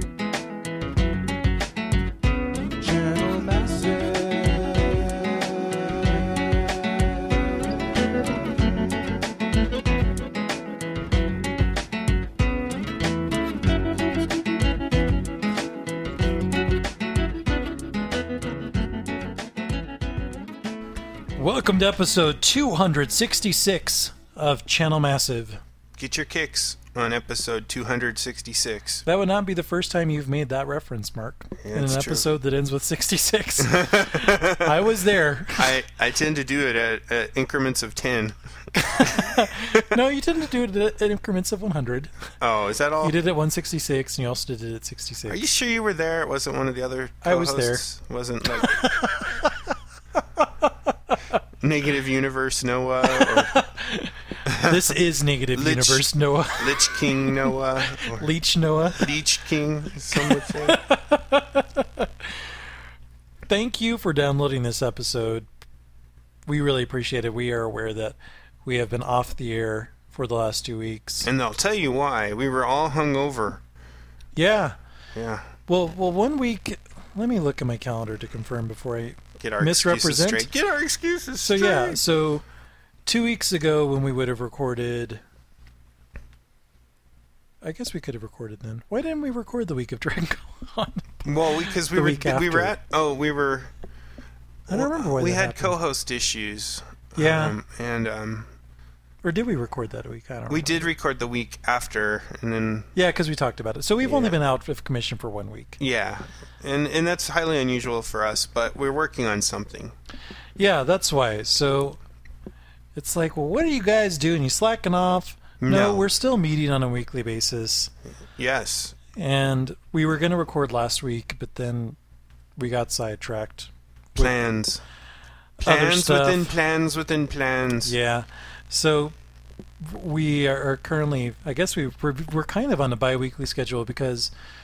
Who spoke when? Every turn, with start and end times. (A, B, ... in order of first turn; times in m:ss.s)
0:02.8-0:06.8 A
0:21.4-0:25.6 B
0:26.0-0:29.0 C
0:29.0-0:35.8 B
0:31.6-0:32.3 C
0:33.6-0:34.7 C
0:35.5-0:38.4 C
0:38.8-0:42.1 B
0:38.9-0:39.8 C
0:42.4-0:43.2 C
0:43.0-0:45.4 B
0:45.3-0:48.8 C
0:47.2-0:47.8 B
0:48.6-0:49.6 B
0:50.4-0:50.7 B
0:51.6-0:53.6 C
0:53.1-0:59.1 B
0:54.5-0:54.8 C
0:55.5-0:58.3 C
0:59.0-1:00.8 C
1:00.1-1:02.3 B
1:03.5-1:05.4 B
1:06.5-1:11.3 B
1:11.2-1:13.6 C
1:14.4-1:14.8 B
1:15.1-1:15.5 C
1:15.7-1:20.5 B
1:19.4-1:22.0 C
1:21.4-1:22.4 B
1:23.0-1:25.2 B
1:27.6-1:32.7 B
1:31.2-1:33.7 C
1:34.7-1:35.8 B
1:34.7-1:38.5 C
1:37.2-1:37.6 B
1:39.2-1:40.9 B
1:40.5-1:42.9 C
1:42.9-1:45.8 B
1:44.0-1:44.4 C
1:45.8-1:49.9 C
1:50.6-1:52.0 B
1:53.0-1:57.9 B
1:55.6-1:56.0 C
1:58.4-1:59.0 C
1:59.1-2:02.0 B
2:02.6-2:04.4 B
2:04.2-2:04.8 C
2:05.6-2:06.6 B
2:05.6-2:07.9 C
2:07.8-2:09.1 B
2:09.8-2:14.3 B